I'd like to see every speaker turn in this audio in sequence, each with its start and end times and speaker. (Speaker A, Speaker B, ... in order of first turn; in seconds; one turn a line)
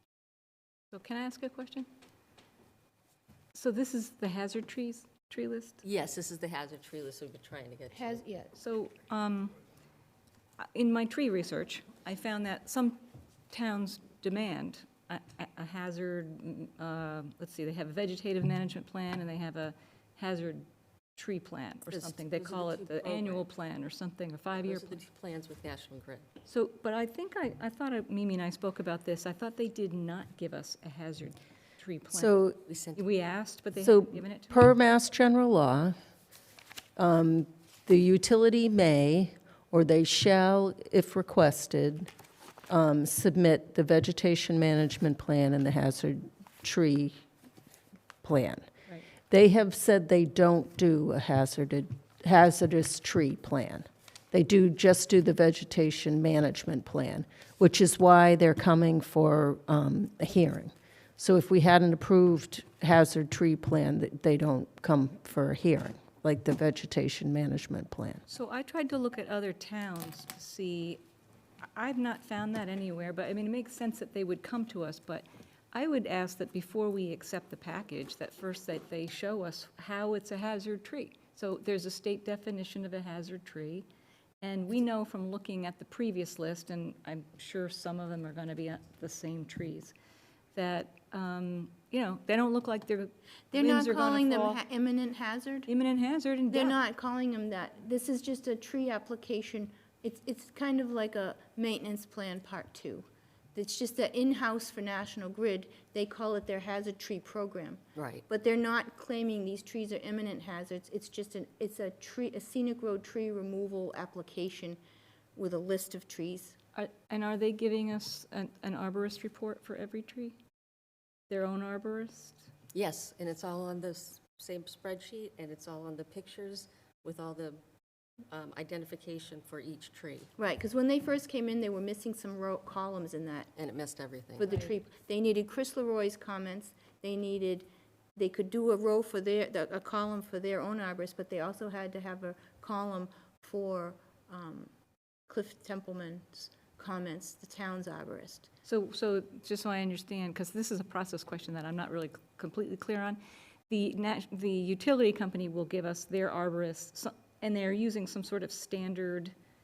Speaker A: 0.9-1.9
Speaker A: 3.5-5.8
Speaker B: 5.8-8.2
Speaker C: 7.9-8.6
Speaker A: 8.6-9.5
Speaker A: 10.6-25.0
Speaker B: 21.9-23.4
Speaker B: 24.5-26.3
Speaker A: 26.5-32.4
Speaker D: 32.1-32.6
Speaker B: 32.7-33.0
Speaker A: 33.0-34.6
Speaker D: 33.8-36.0
Speaker D: 37.0-42.1
Speaker D: 42.7-47.2
Speaker D: 48.2-48.7
Speaker D: 49.3-68.2
Speaker A: 68.3-71.0
Speaker A: 71.7-83.9
Speaker A: 84.4-90.0
Speaker A: 90.5-94.6
Speaker C: 93.5-95.7
Speaker A: 95.7-96.8
Speaker C: 96.5-114.8
Speaker B: 108.0-108.2
Speaker C: 115.4-116.6
Speaker A: 116.8-120.4
Speaker A: 121.3-122.4
Speaker B: 122.7-127.6
Speaker B: 128.3-130.3
Speaker C: 130.4-133.5
Speaker B: 133.6-134.6
Speaker C: 134.4-144.7
Speaker C: 145.3-148.5
Speaker A: 148.7-159.3